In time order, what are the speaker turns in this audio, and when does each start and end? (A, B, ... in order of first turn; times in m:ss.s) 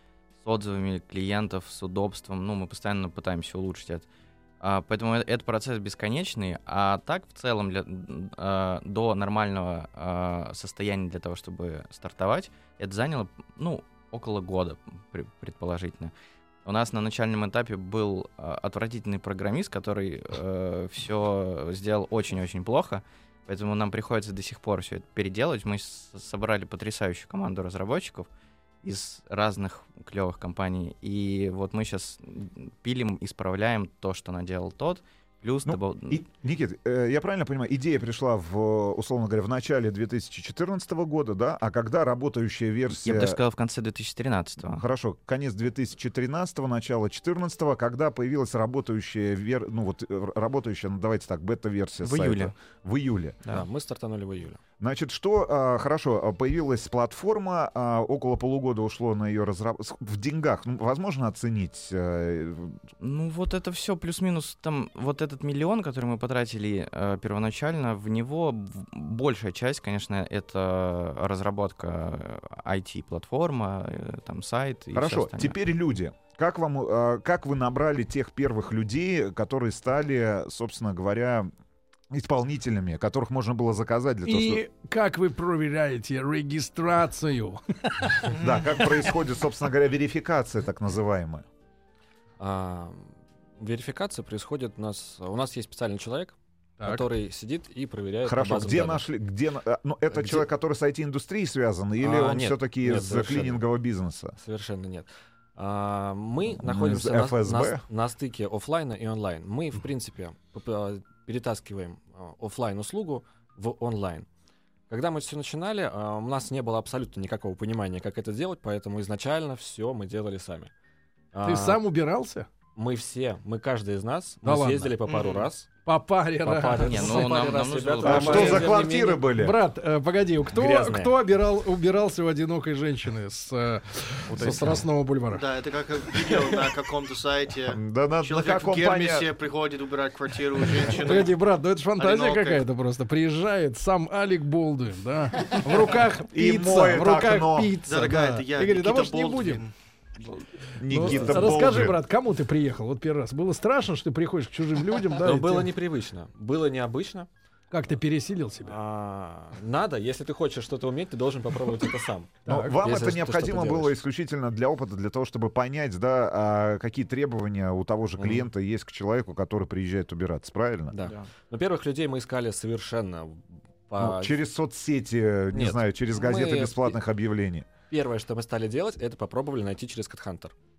0:00.4-0:04.1 A
0:04.6-0:16.1 A
0:16.6-0:28.3 A
0:28.8-0:36.2 A
0:35.6-0:43.4 B
0:43.0-0:44.8 A
0:44.6-0:53.4 B
0:52.0-0:52.5 A
0:53.5-0:54.6 C
0:54.8-1:02.8 B
1:03.0-1:15.6 A
1:14.9-1:21.5 B
1:22.1-1:24.6 B
1:24.2-1:28.3 D
1:28.3-1:28.7 E
1:28.3-1:31.4 B
1:32.4-1:39.0 C
1:36.8-1:37.0 D
1:38.2-1:44.4 B
1:40.1-1:40.4 C
1:42.0-1:43.6 C
1:44.4-1:54.3 C
1:46.5-1:47.8 B
1:54.9-2:00.7 C
2:01.3-2:01.8 C
2:01.4-2:02.5 D
2:02.7-2:05.7 C
2:04.4-2:04.9 D
2:05.0-2:05.5 E
2:05.8-2:07.6 D
2:06.4-2:09.2 C
2:06.8-2:08.7 A
2:08.0-2:09.6 B
2:08.2-2:08.6 D
2:09.4-2:15.4 D
2:10.5-2:11.1 C
2:14.4-2:14.8 B
2:15.3-2:21.3 E
2:17.7-2:19.3 B
2:21.0-2:29.6 D
2:22.0-2:22.6 E
2:26.3-2:27.8 B
2:27.8-2:29.7 E
2:30.8-2:32.0 B
2:30.9-2:35.7 D
2:31.0-2:31.5 C
2:35.2-2:37.3 C
2:37.7-2:38.8 D
2:38.6-2:43.9 C
2:42.4-2:42.8 D
2:42.5-2:51.0 B
2:48.2-2:48.4 C
2:50.9-2:54.4 C
2:54.0-2:57.7 B
2:55.5-2:57.0 C
2:57.9-3:00.5 C